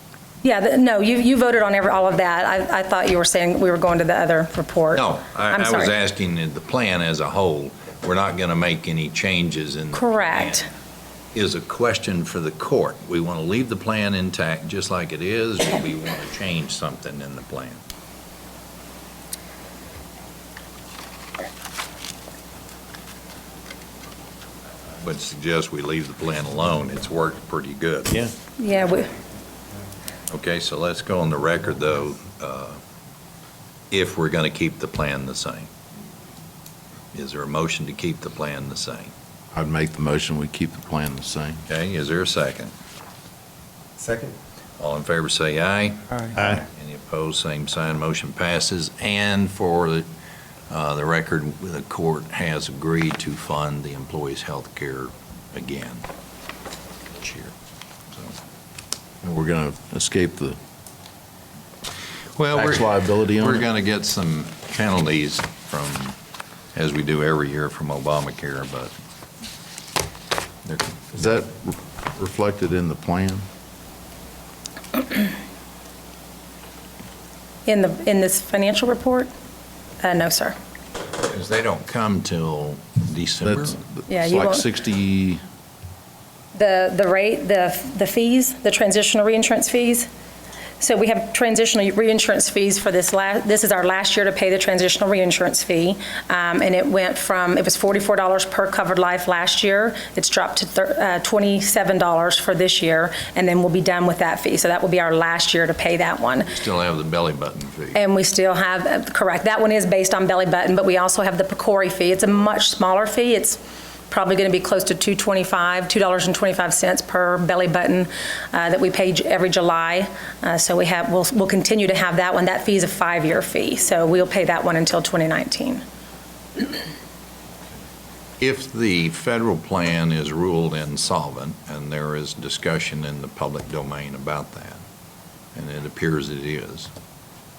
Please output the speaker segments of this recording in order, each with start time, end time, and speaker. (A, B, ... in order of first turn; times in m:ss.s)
0:00.4-0:05.9 A
0:04.9-0:10.6 B
0:09.9-0:10.7 A
0:11.3-0:17.8 B
0:25.0-0:28.1 B
0:28.6-0:29.1 A
0:30.3-0:32.8 B
0:33.9-0:35.7 B
0:37.1-0:39.1 B
0:39.5-0:41.6 C
0:41.7-0:42.7 B
0:44.8-0:50.0 B
0:46.3-0:46.6 C
0:50.7-0:56.0 B
0:57.1-0:57.5 B
0:59.2-1:00.6 C
1:02.4-1:06.2 B
1:02.5-1:03.6 C
1:06.7-1:08.9 B
1:10.6-1:11.0 B
1:11.1-1:13.4 C
1:17.6-1:19.3 A
1:20.0-1:20.5 A
1:21.2-1:23.8 B
1:23.4-1:25.4 C
1:24.1-1:24.6 A
1:26.5-1:30.1 A
1:30.8-1:46.5 A
1:46.4-1:48.0 B
1:47.9-1:53.6 A
1:54.1-2:05.8 A
2:08.4-2:14.8 B
2:15.5-2:16.9 B